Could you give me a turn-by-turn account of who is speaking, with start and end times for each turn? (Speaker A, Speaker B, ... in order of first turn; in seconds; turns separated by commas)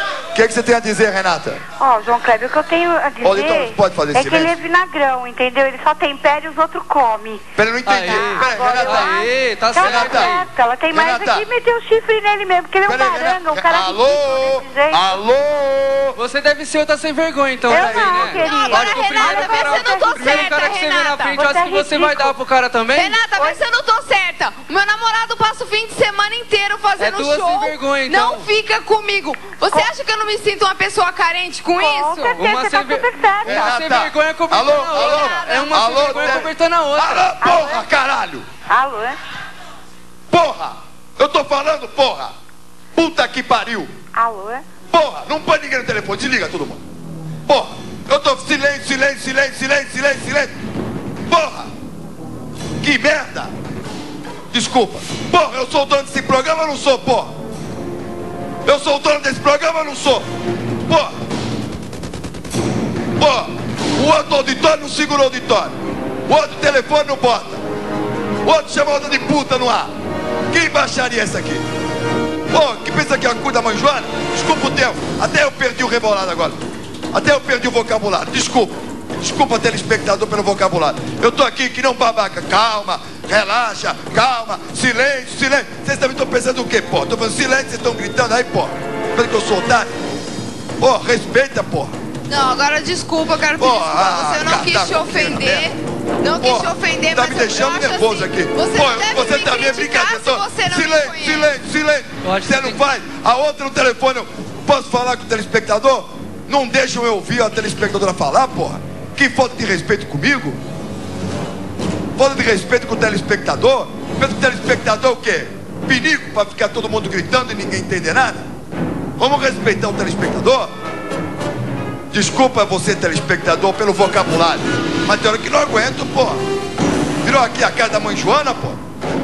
Speaker A: 0.3-1.6, Speaker B: 1.8-7.4, Speaker A: 3.2-4.5, Speaker A: 7.5-9.2, Speaker C: 7.9-10.4, Speaker B: 8.0-15.1, Speaker A: 9.8-10.4, Speaker A: 10.9-11.5, Speaker A: 12.9-16.2, Speaker C: 16.2-23.2, Speaker B: 17.7-20.6, Speaker A: 17.7-18.2, Speaker D: 18.2-21.4, Speaker B: 21.3-22.3, Speaker D: 22.9-32.4, Speaker C: 27.0-28.5, Speaker B: 31.8-33.8, Speaker C: 32.4-37.3, Speaker A: 33.4-38.5, Speaker D: 34.7-36.5, Speaker B: 37.4-37.9, Speaker B: 38.7-39.2, Speaker A: 40.3-42.3, Speaker A: 43.0-43.9, Speaker B: 44.1-44.6, Speaker A: 44.9-46.8, Speaker A: 47.5-50.5, Speaker A: 51.3-51.7, Speaker A: 52.8-53.5, Speaker A: 54.5-57.3, Speaker A: 58.6-60.3, Speaker A: 60.9-61.1, Speaker A: 63.2-65.7, Speaker A: 66.3-67.6, Speaker A: 68.4-69.9, Speaker A: 70.5-71.7, Speaker A: 72.5-76.6, Speaker A: 77.1-89.9, Speaker A: 90.8-91.9, Speaker D: 92.3-101.5, Speaker A: 93.6-95.7, Speaker A: 96.4-110.6, Speaker C: 102.2-102.8, Speaker A: 112.2-118.5, Speaker A: 119.2-120.7, Speaker A: 122.1-126.4, Speaker A: 127.2-128.8